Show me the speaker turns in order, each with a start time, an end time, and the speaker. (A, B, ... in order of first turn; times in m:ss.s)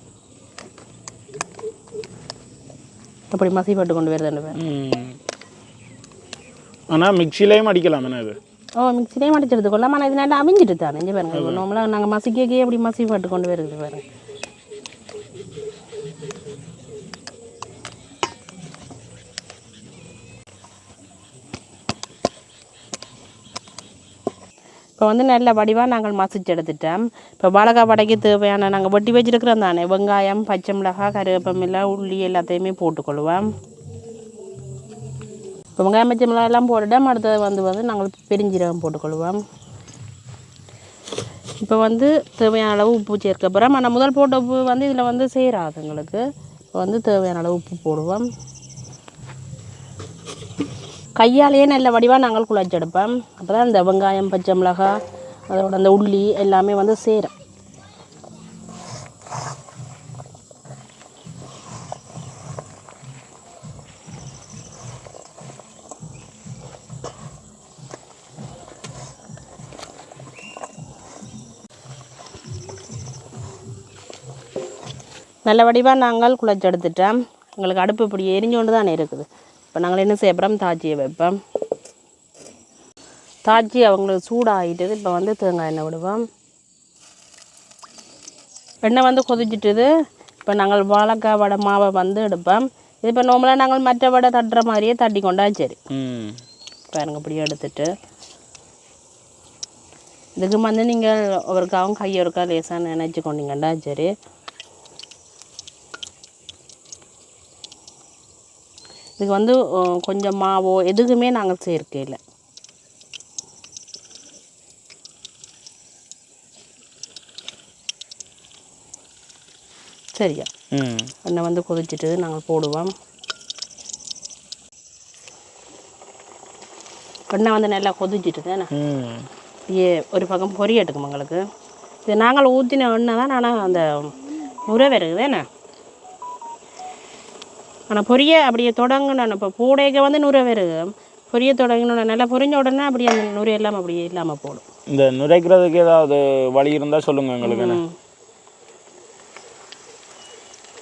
0:03.3-0:04.6 A
0:04.6-0:05.2 B
0:06.9-0:08.4 B
0:08.8-0:14.0 A
0:11.3-0:11.6 B
0:25.0-0:33.4 A
0:35.8-0:39.4 A
0:41.6-0:46.2 A
0:46.7-0:48.3 A
0:51.2-0:55.0 A
0:55.5-0:57.3 A
1:15.4-1:21.4 A
1:23.4-1:26.2 A
1:28.8-1:29.9 A
1:30.4-1:35.8 A
1:35.9-1:36.3 B
1:36.9-1:37.9 A
1:40.4-1:44.1 A
1:49.2-1:52.2 A
2:00.1-2:00.5 A
2:00.7-2:01.1 B
2:01.2-2:02.9 A
2:07.3-2:08.7 A
2:08.7-2:09.3 B
2:09.7-2:11.4 A
2:12.0-2:14.2 A
2:14.7-2:15.4 A
2:17.9-2:24.6 A
2:24.9-2:27.8 B
2:27.4-2:27.9 A